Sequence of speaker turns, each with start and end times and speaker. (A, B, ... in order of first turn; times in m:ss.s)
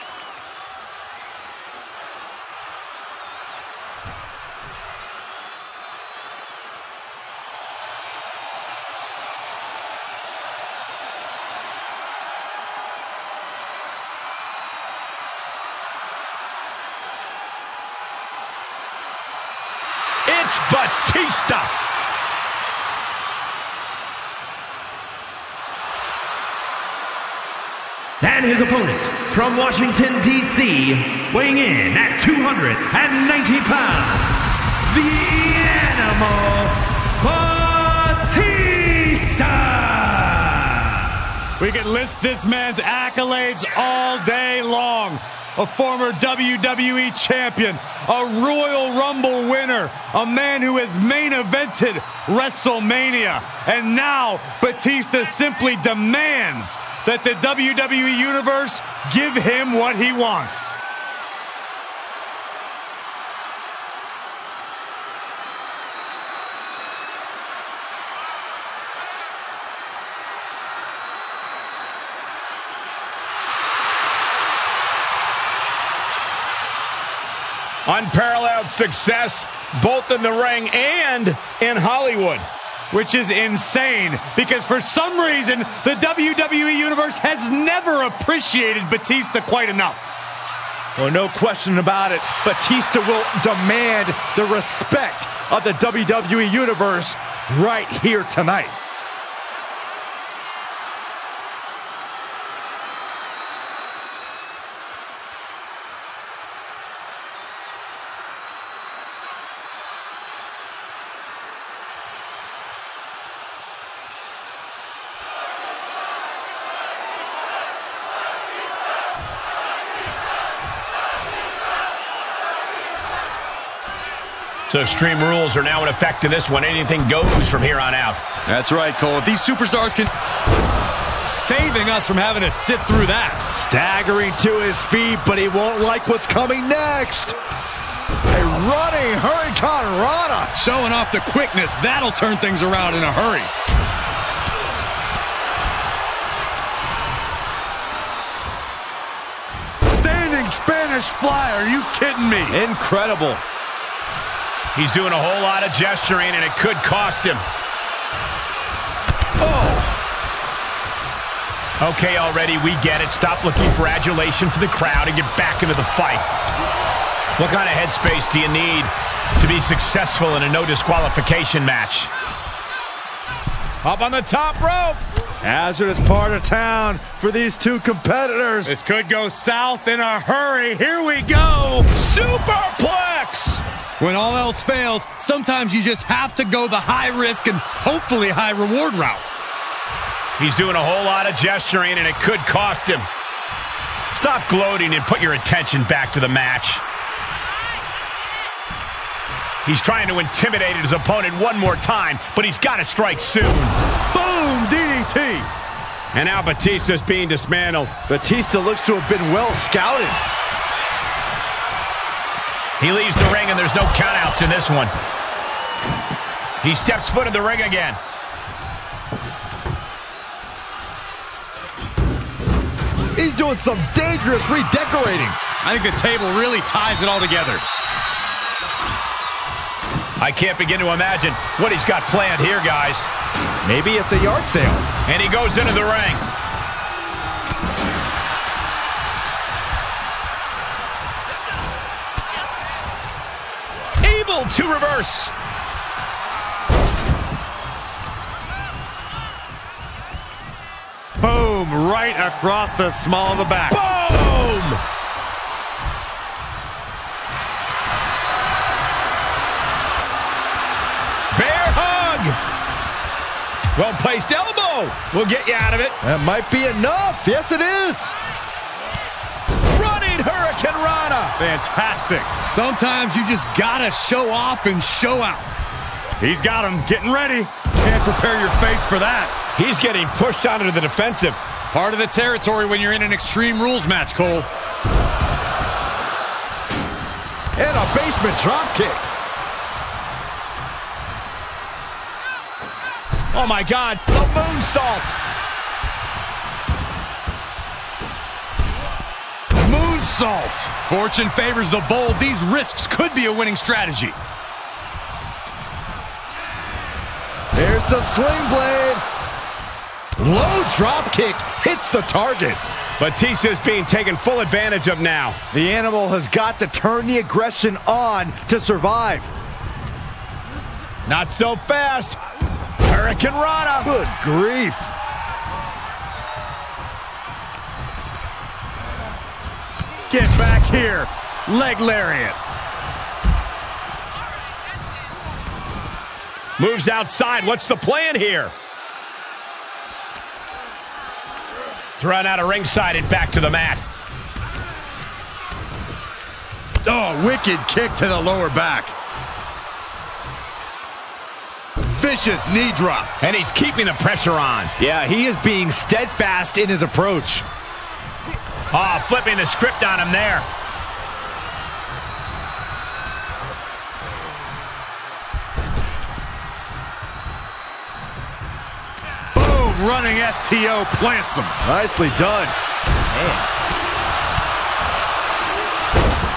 0:20.3-0:21.7 A
0:28.2-0:34.7 B
0:34.9-0:36.7 C
0:35.6-0:36.1 B
0:37.2-0:39.3 C
0:39.2-0:40.6 B
0:41.6-1:00.8 C
1:17.8-1:22.4 A
1:22.9-1:30.1 C
1:31.0-1:38.7 D
2:04.7-2:08.2 A
2:08.4-2:10.1 C
2:11.2-2:13.5 C
2:13.5-2:17.3 D
2:18.3-2:20.5 D
2:20.5-2:23.5 C
2:29.8-2:32.6 C
2:32.5-2:33.4 D
2:34.7-2:37.4 A
2:39.4-2:39.9 D
2:41.8-2:46.2 A
2:47.4-2:52.1 A
2:53.8-2:55.0 A
2:55.4-2:58.7 D
2:58.6-3:01.9 C
3:02.0-3:03.6 A
3:04.0-3:09.2 C
3:10.4-3:13.1 A
3:14.1-3:16.8 A
3:19.6-3:23.8 A
3:24.1-3:25.5 D
3:26.1-3:28.0 A
3:28.1-3:30.2 D
3:32.8-3:34.9 A
3:36.6-3:38.0 A
3:43.1-3:45.4 D
3:45.6-3:47.6 C
3:50.2-3:53.1 A
3:53.6-3:54.9 D
3:55.0-3:56.2 A
4:04.0-4:05.3 A
4:11.2-4:13.9 C
4:13.7-4:14.8 A
4:21.3-4:22.4 A
4:23.7-4:26.0 A
4:26.0-4:28.1 D
4:29.7-4:31.3 A
4:31.4-4:35.5 C
4:36.2-4:39.3 C
4:39.5-4:41.4 A
4:41.7-4:44.5 C
4:47.6-4:49.1 D
4:53.3-4:55.1 A
4:59.5-5:04.2 C
5:07.5-5:09.0 D
5:10.2-5:12.6 D
5:13.0-5:15.4 A
5:15.5-5:19.3 D
5:21.0-5:22.2 A
5:22.8-5:23.9 A
5:23.8-5:24.9 D
5:30.1-5:32.4 C
5:36.6-5:38.5 A
5:42.0-5:43.8 A
5:46.8-5:48.9 C
5:51.9-5:53.1 C
5:53.2-5:54.7 A
5:54.8-5:57.4 D
5:58.7-6:00.5 A
6:09.3-6:11.6 C
6:11.6-6:12.5 D